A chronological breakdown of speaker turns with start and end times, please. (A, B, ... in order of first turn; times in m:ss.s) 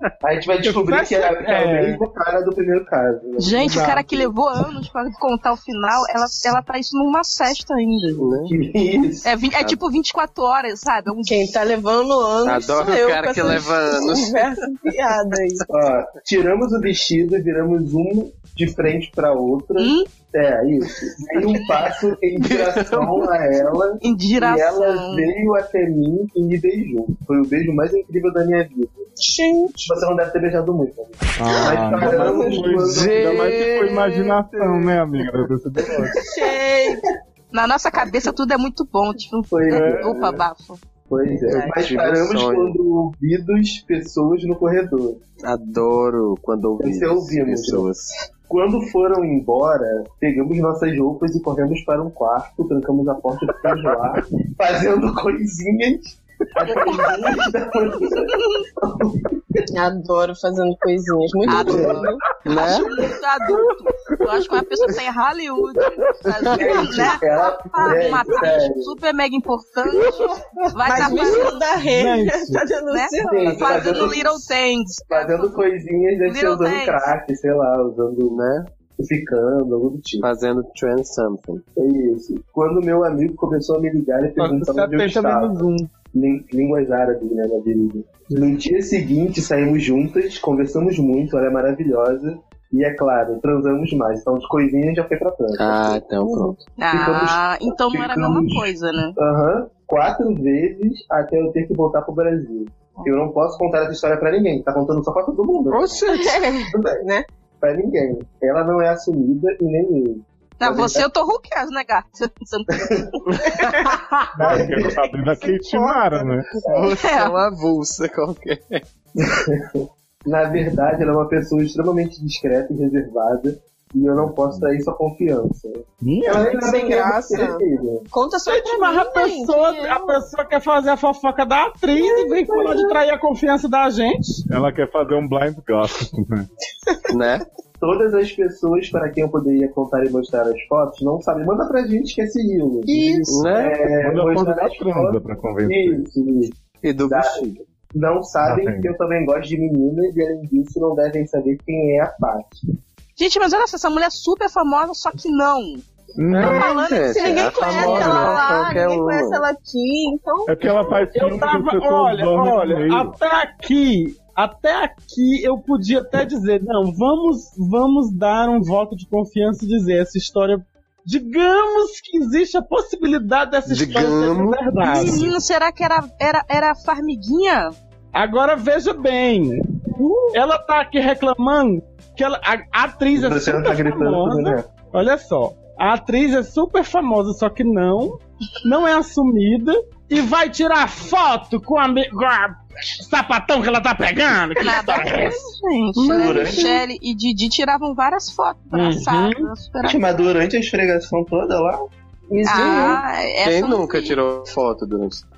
0:00.2-0:04.3 A
0:00.6-0:02.0 B
0:03.4-0:08.3 C
0:03.6-0:04.0 B
0:08.2-0:08.5 D
0:08.3-0:09.3 A
0:09.2-0:11.5 C
0:11.3-0:15.7 E
0:12.4-0:14.5 D
0:15.7-0:29.1 A
0:19.8-0:20.1 C
0:22.4-0:23.3 D
0:24.0-0:25.3 C
0:29.2-0:30.0 E
0:29.8-0:33.5 A
0:31.4-0:36.2 F
0:31.6-0:32.0 D
0:32.0-0:32.4 E
0:32.8-0:34.5 D
0:36.2-0:37.1 E
0:37.5-0:40.8 C
0:39.5-0:40.4 A
0:39.7-0:40.1 F
0:41.1-0:45.2 A
0:41.5-0:42.8 D
0:45.4-0:48.1 D
0:46.8-0:47.9 A
0:48.5-0:59.6 A
0:56.7-0:57.1 C
0:58.3-0:58.6 C
0:59.7-1:02.2 E
1:01.5-1:11.6 C
1:01.5-1:02.1 A
1:02.5-1:02.9 D
1:06.5-1:09.0 A
1:08.0-1:08.4 E
1:10.8-1:14.2 E
1:11.8-1:12.6 B
1:12.9-1:15.6 C
1:13.2-1:14.5 A
1:15.1-1:18.4 A
1:16.2-1:17.1 C
1:18.3-1:18.7 D
1:19.0-1:20.3 A
1:20.2-1:21.6 D
1:21.8-1:25.6 A
1:24.4-1:25.9 B
1:26.1-1:46.1 A
1:35.6-1:36.6 D
1:36.8-1:39.2 C
1:45.7-1:46.4 D
1:46.0-1:47.3 E
1:46.6-1:47.0 A
1:47.6-1:51.1 A
1:50.6-1:53.0 C
1:52.7-1:53.1 A
1:53.6-1:54.7 E
1:54.4-1:56.5 F
1:54.5-1:55.0 A
1:55.3-1:56.4 E
1:56.6-1:56.9 A
1:56.6-1:58.8 D
1:57.0-1:57.4 C
1:59.2-2:08.1 A
2:04.2-2:04.7 F
2:06.0-2:06.5 F
2:06.3-2:10.3 E
2:08.5-2:14.4 B
2:12.0-2:12.9 E
2:14.5-2:16.5 F
2:17.1-2:17.4 D
2:17.8-2:32.6 A
2:23.0-2:23.3 E
2:23.3-2:23.8 D
2:23.9-2:26.0 F
2:26.8-2:27.6 D
2:28.4-2:28.9 F
2:33.2-2:38.4 C
2:36.2-2:36.7 F
2:36.3-2:39.4 D
2:36.4-2:41.0 E
2:40.5-2:43.2 F
2:41.1-2:55.3 B
2:53.7-2:54.6 D
2:54.8-2:57.8 C
2:58.2-2:59.6 B
3:00.3-3:15.5 B
3:03.1-3:04.7 A
3:14.6-3:20.2 C
3:16.0-3:16.7 D
3:16.1-3:16.8 A
3:18.7-3:19.5 B
3:19.8-3:21.8 A
3:22.3-3:23.0 E
3:22.4-3:24.2 C
3:22.6-3:22.9 D
3:23.4-3:25.2 D